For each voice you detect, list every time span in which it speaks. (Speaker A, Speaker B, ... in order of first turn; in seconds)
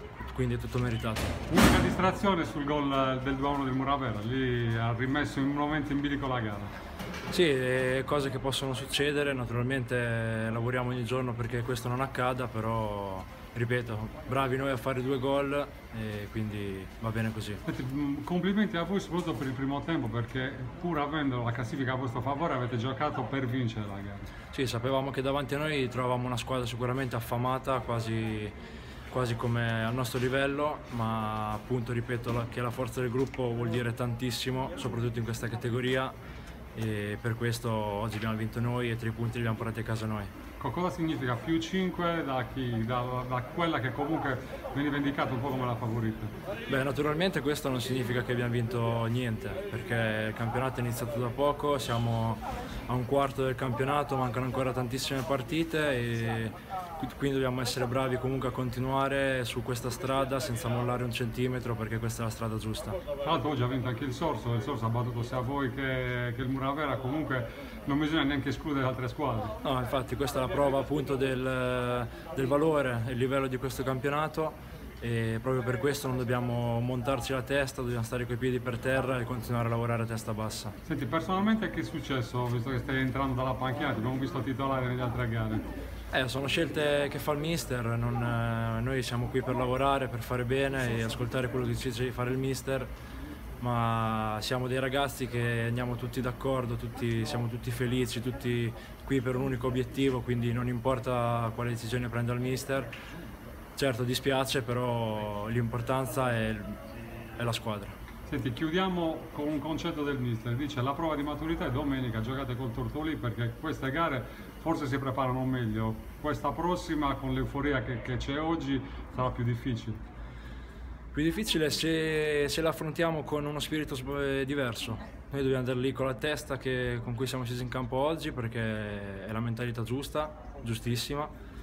Speaker A: 0.2-1.4, 7.3-17.6, 24.5-28.5, 29.1-36.1, 36.7-40.3, 46.7-63.0, 69.6-80.7, 86.1-92.9, 93.6-102.9, 103.8-106.8, 107.4-107.9, 121.1-131.3
Speaker B: 1.5-6.7, 17.6-24.3, 40.6-46.3, 63.2-69.5, 80.8-85.6, 108.3-120.0